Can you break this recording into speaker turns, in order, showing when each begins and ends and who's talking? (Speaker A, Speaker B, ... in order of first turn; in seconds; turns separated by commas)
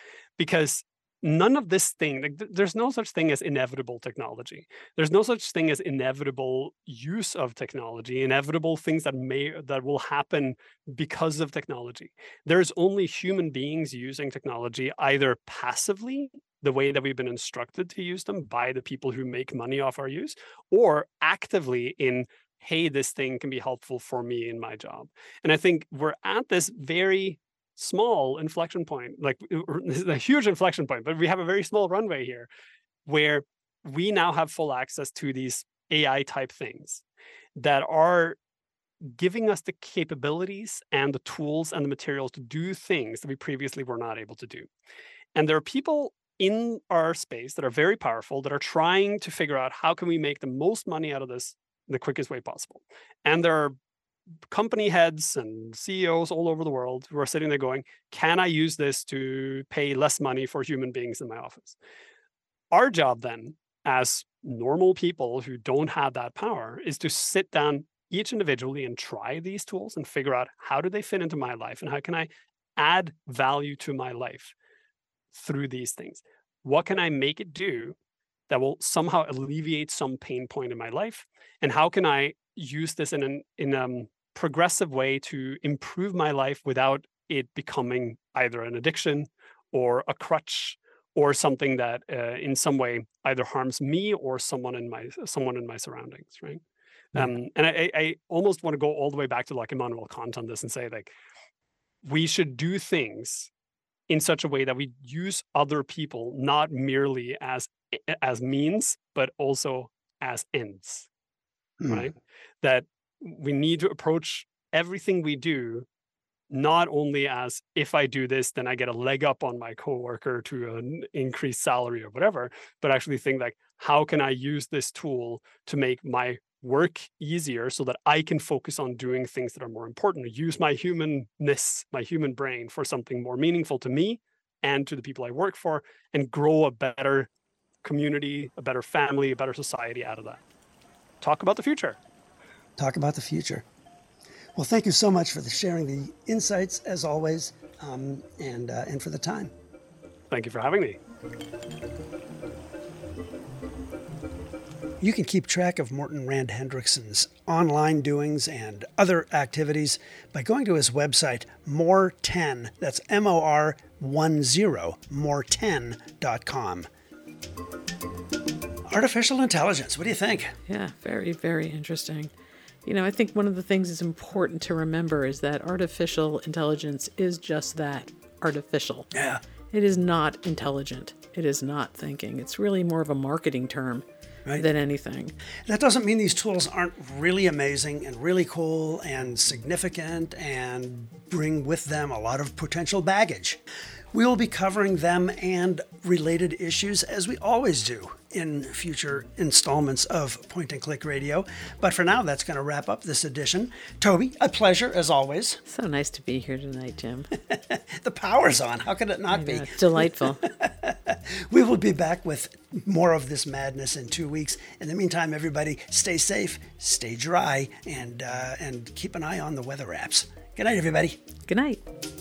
Speaker A: 0.4-32.5, Speaker A: 33.1-37.0, Speaker A: 37.6-38.4, Speaker A: 39.0-44.7, Speaker A: 45.4-53.8, Speaker A: 54.5-61.8, Speaker A: 62.7-74.5, Speaker A: 75.3-78.0, Speaker A: 78.5-96.6, Speaker A: 97.1-101.1, Speaker A: 102.0-103.5, Speaker A: 104.1-111.1, Speaker A: 111.9-115.9, Speaker A: 116.5-137.3, Speaker A: 137.8-140.4, Speaker A: 141.2-142.0, Speaker B: 142.8-143.7, Speaker B: 144.6-149.5, Speaker A: 150.3-151.0, Speaker B: 155.0-166.9, Speaker B: 168.8-170.6, Speaker C: 170.7-172.3, Speaker C: 172.8-179.1, Speaker B: 179.1-179.4, Speaker C: 179.7-184.1, Speaker C: 184.6-185.3, Speaker B: 185.7-193.6, Speaker B: 194.1-205.6, Speaker C: 205.7-207.3, Speaker B: 207.5-221.2, Speaker C: 209.3-210.4, Speaker C: 221.5-221.8